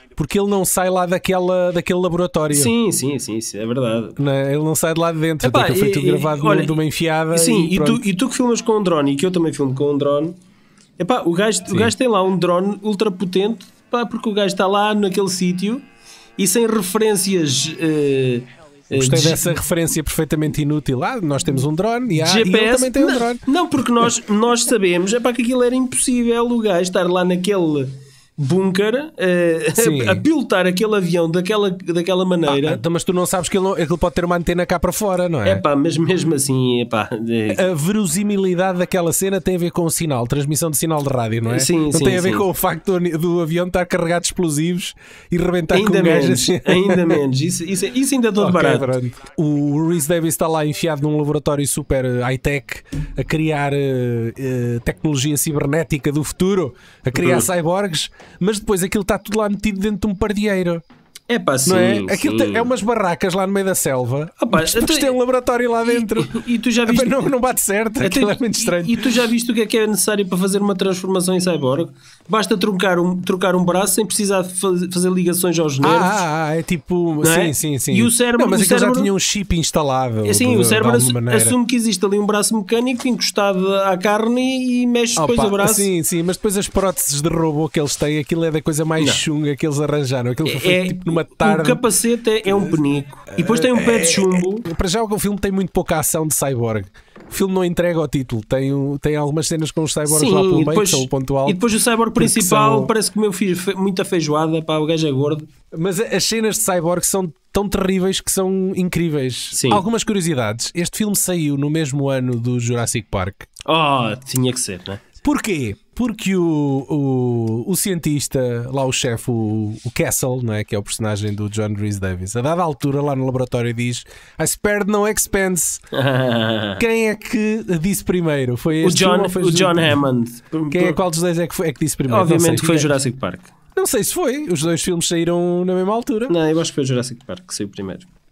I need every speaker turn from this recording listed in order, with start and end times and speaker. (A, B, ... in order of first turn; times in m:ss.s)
0:00.2-0:02.7 A
0:02.5-0:04.2 B
0:04.2-0:08.1 A
0:05.4-0:06.8 B
0:07.3-0:10.4 B
0:11.0-0:15.8 B
0:16.4-0:19.5 B
0:18.9-0:23.4 A
0:22.1-0:32.8 B
0:29.8-0:30.2 A
0:32.4-0:35.6 A
0:35.4-0:37.6 B
0:37.5-0:47.2 A
0:41.5-0:42.4 B
0:45.7-0:48.9 B
0:48.4-1:00.8 A
0:57.2-0:57.4 B
1:01.3-1:02.7 B
1:01.6-1:06.4 A
1:04.4-1:05.1 B
1:05.8-1:07.3 B
1:06.9-1:09.1 A
1:08.0-1:16.2 B
1:15.8-1:21.5 A
1:17.2-1:19.1 B
1:20.2-1:25.9 B
1:25.2-1:31.8 A
1:30.4-1:34.6 B
1:32.5-1:32.8 A
1:33.3-1:41.6 A
1:40.1-1:45.5 B
1:42.2-1:42.9 A
1:45.7-1:53.5 A
1:49.5-1:49.8 B
1:53.6-1:55.0 B
1:55.2-2:05.8 A
2:05.9-2:06.8 B
2:06.8-2:09.9 A
2:08.8-2:11.0 B
2:10.7-2:12.9 A
2:12.1-2:13.5 B
2:13.8-2:16.3 A
2:16.3-2:18.0 B